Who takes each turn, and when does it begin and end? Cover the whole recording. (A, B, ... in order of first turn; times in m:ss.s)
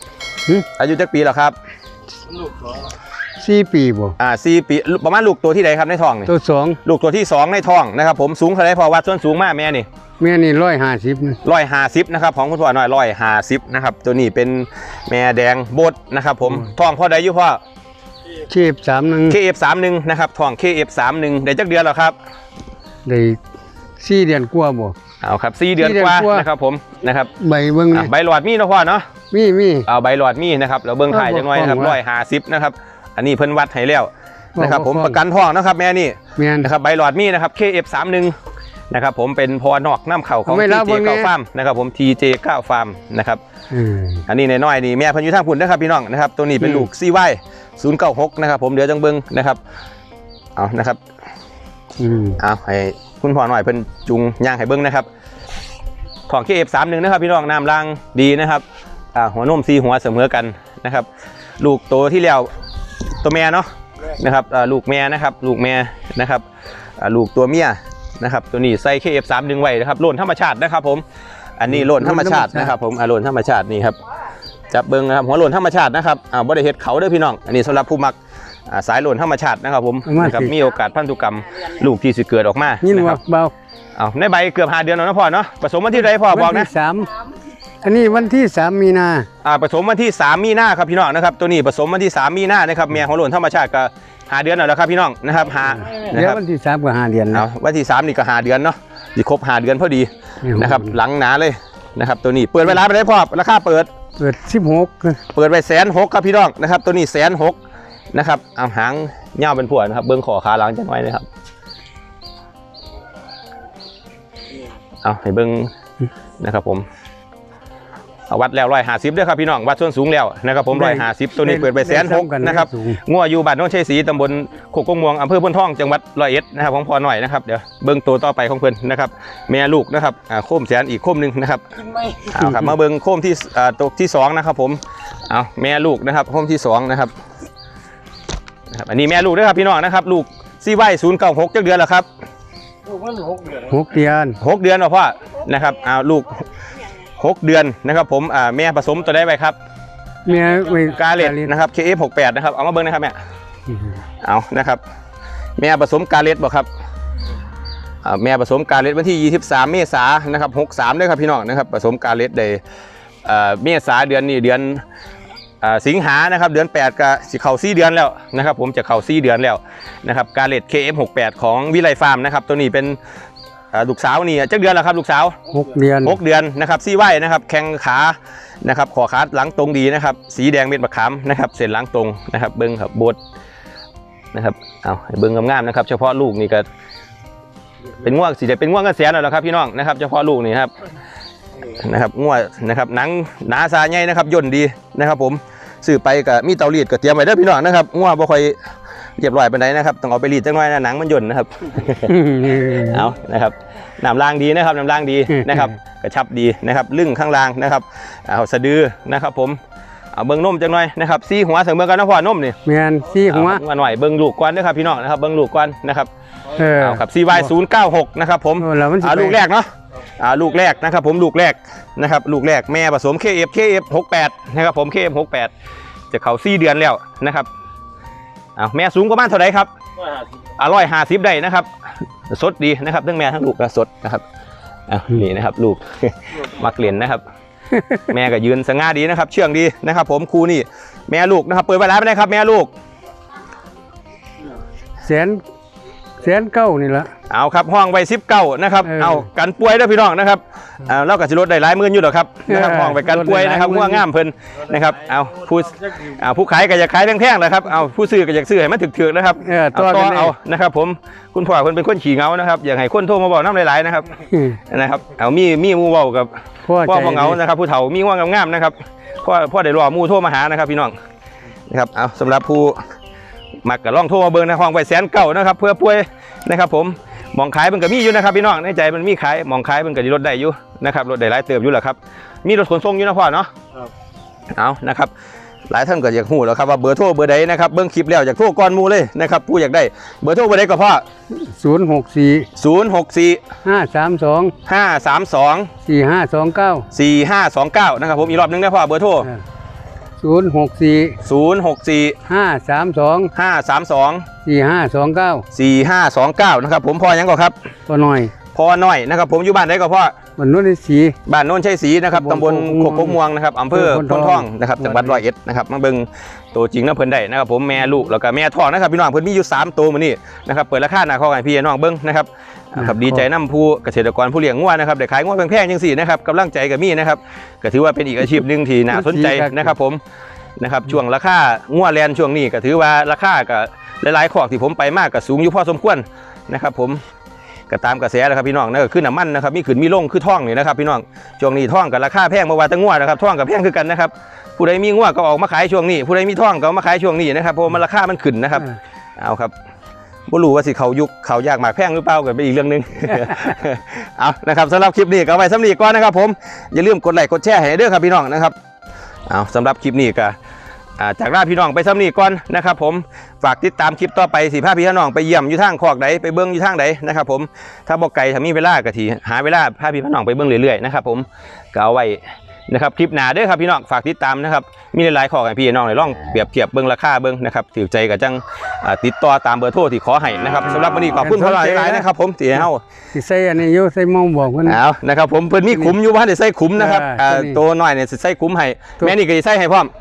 0:00.8-0:01.6 A
0:03.4-0:04.2 B
0:04.2-0:06.3 A
0:06.3-0:06.8 B
0:06.8-0:09.9 A
0:10.2-0:11.4 B
0:11.4-0:17.6 A
0:18.5-0:19.4 B
0:19.3-0:22.1 A
0:23.0-0:23.4 B
0:24.0-0:25.0 B
0:25.2-0:27.3 A
0:25.8-0:26.5 B
0:27.4-0:28.1 B
0:27.9-0:29.0 A
0:29.3-0:29.9 B
0:29.9-0:38.3 A
0:31.1-0:32.0 B
0:34.6-0:35.2 B
0:36.4-0:36.7 B
0:38.9-0:43.4 A
0:40.4-0:41.3 B
0:43.7-0:44.2 B
0:44.3-0:49.6 A
0:46.6-0:46.9 B
0:50.6-0:51.0 A
0:52.0-0:52.4 B
0:52.4-0:55.0 A
0:56.3-1:01.1 A
1:01.6-1:02.5 A
1:03.2-1:06.4 A
1:07.0-1:11.0 A
1:11.6-1:14.0 A
1:11.7-1:12.7 B
1:14.7-1:18.1 A
1:18.7-1:23.2 A
1:20.0-1:20.5 B
1:22.8-1:23.5 B
1:24.0-1:26.7 A
1:26.3-1:27.2 B
1:27.8-1:29.3 B
1:29.4-1:36.4 A
1:35.8-1:37.4 B
1:37.3-1:43.9 A
1:40.4-1:40.9 B
1:44.2-1:45.2 B
1:45.3-1:47.6 A
1:48.1-1:51.3 A
1:55.0-1:55.7 A
1:56.4-1:56.8 A
1:58.3-2:11.6 A
2:00.7-2:03.0 B
2:12.2-2:17.1 A
2:12.4-2:12.7 B
2:18.7-2:22.1 A
2:23.4-2:24.4 B
2:24.4-2:26.4 A
2:27.2-2:29.6 A
2:30.2-2:31.5 B
2:30.9-2:33.2 A
2:34.2-2:34.8 A
2:35.6-2:36.7 A
2:38.0-2:42.6 A
2:43.2-2:44.8 A
2:45.6-2:53.0 A
2:53.7-2:55.3 A
2:55.5-2:56.2 B
2:56.0-3:03.2 A
3:04.3-3:06.6 A
3:08.0-3:10.7 A
3:11.7-3:18.6 A
3:19.2-3:22.1 A
3:22.0-3:23.0 B
3:22.7-3:29.6 A
3:25.3-3:25.7 B
3:30.1-3:32.5 A
3:32.6-3:33.6 B
3:33.3-3:36.1 A
3:36.5-3:37.5 B
3:36.8-3:45.5 A
3:38.6-3:39.4 B
3:46.1-3:47.5 A
3:48.6-3:49.7 A
3:50.6-3:51.7 A
3:52.3-3:54.2 A
3:54.9-3:57.2 A
3:57.7-3:58.1 B
3:58.1-4:02.7 A
4:05.0-4:05.4 B
4:06.2-4:07.1 B
4:07.3-4:24.1 A
4:08.8-4:09.3 B
4:12.5-4:14.0 B
4:19.4-4:20.3 B
4:24.3-4:24.6 B
4:24.7-4:26.3 A
4:26.6-4:27.4 B
4:26.8-4:30.9 A
4:31.7-4:32.8 A
4:33.6-4:43.5 A
4:44.5-4:45.1 A
4:45.7-4:51.0 A
4:51.3-4:52.5 B
4:52.6-4:53.4 A
4:53.6-4:54.5 B
4:54.6-4:55.7 A
4:55.8-4:56.8 B
4:56.9-4:59.3 A
5:00.2-5:01.2 B
5:01.2-5:02.2 A
5:02.3-5:03.3 B
5:03.3-5:04.2 A
5:04.4-5:05.4 B
5:05.5-5:07.5 A
5:07.9-5:08.3 B
5:08.5-5:10.1 A
5:10.4-5:11.2 B
5:11.3-5:30.0 A
5:12.1-5:13.2 B
5:13.7-5:15.2 B
5:22.8-5:23.2 B
5:28.9-5:29.7 B
5:30.6-5:37.0 A
5:37.7-5:49.5 A
5:50.3-5:58.5 A
5:59.3-6:00.4 A
6:01.0-6:22.8 A
6:21.2-6:22.0 B
6:23.1-6:24.8 B
6:24.6-6:29.9 A
6:26.8-6:27.6 B